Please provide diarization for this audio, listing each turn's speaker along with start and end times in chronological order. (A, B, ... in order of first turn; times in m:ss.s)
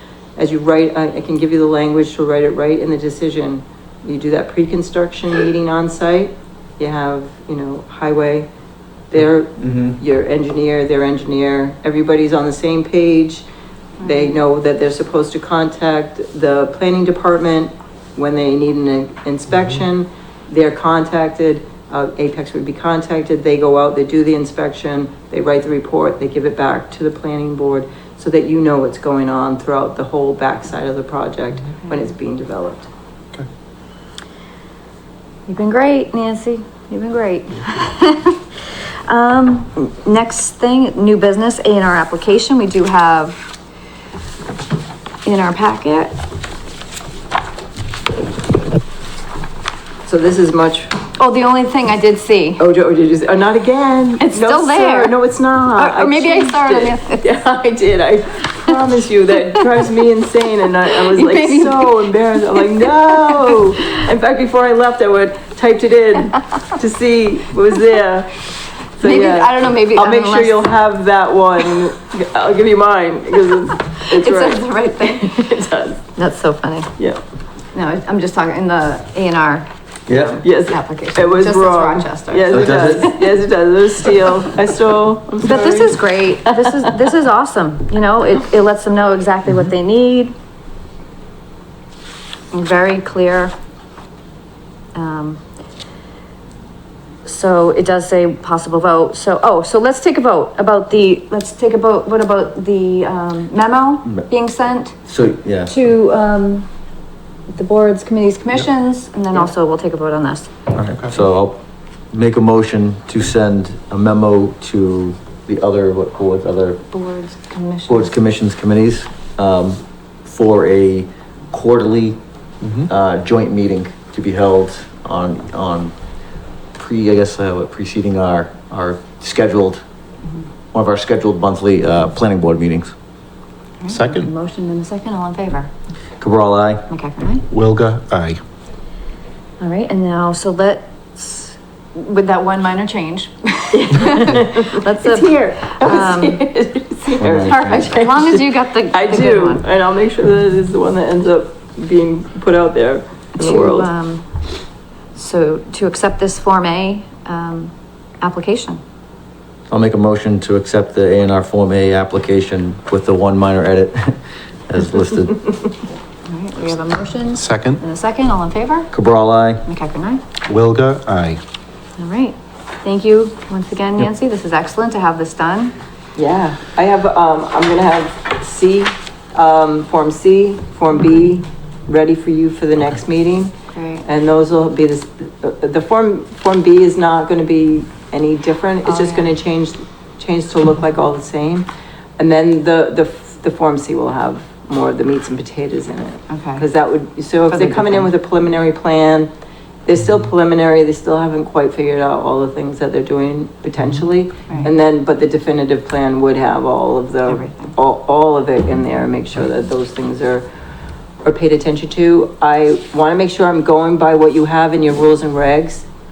0:00.4-0:08.5 A
0:09.1-0:13.4 A
0:09.6-0:09.9 B
0:14.0-0:14.3 C
0:14.0-0:32.9 A
0:35.5-0:38.4 C
0:39.0-0:43.5 C
0:45.2-0:46.1 C
0:50.1-0:50.9 A
0:51.2-0:52.6 C
0:52.6-1:08.4 A
0:54.2-0:55.1 C
0:55.7-0:57.2 C
1:01.0-1:03.6 C
1:09.0-1:16.0 A
1:09.0-1:10.7 C
1:14.1-1:15.4 C
1:16.2-1:16.9 C
1:17.7-1:23.1 C
1:20.1-1:20.4 B
1:20.4-1:25.9 A
1:22.5-1:23.2 B
1:25.4-1:30.3 C
1:32.5-1:33.5 C
1:34.9-1:35.4 C
1:37.2-1:45.1 C
1:45.0-1:45.7 B
1:45.6-1:46.7 C
1:47.5-1:50.5 C
1:50.7-1:56.8 B
1:50.8-1:51.1 D
1:56.9-1:58.1 C
1:57.9-2:02.2 B
2:02.6-2:02.9 D
2:02.8-2:05.9 B
2:06.7-2:09.8 B
2:10.7-2:12.9 B
2:13.8-2:15.7 C
2:13.9-2:14.3 D
2:16.2-2:16.9 B
2:16.9-2:17.4 C
2:17.5-2:18.4 D
2:19.6-2:26.4 C
2:23.7-2:33.9 A
2:27.2-2:28.0 B
2:27.3-2:29.6 C
2:33.4-2:38.8 C
2:39.7-2:45.6 B
2:46.3-2:48.9 C
2:47.3-2:47.8 D
2:48.9-2:49.6 B
2:49.6-2:50.2 C
2:50.4-2:51.4 D
2:52.0-2:55.7 C
2:56.2-3:19.3 A
3:03.7-3:04.0 C
3:08.8-3:09.3 C
3:16.3-3:16.6 C
3:17.5-3:18.1 C
3:19.8-3:30.5 A
3:27.3-3:27.7 C
3:31.2-3:35.9 A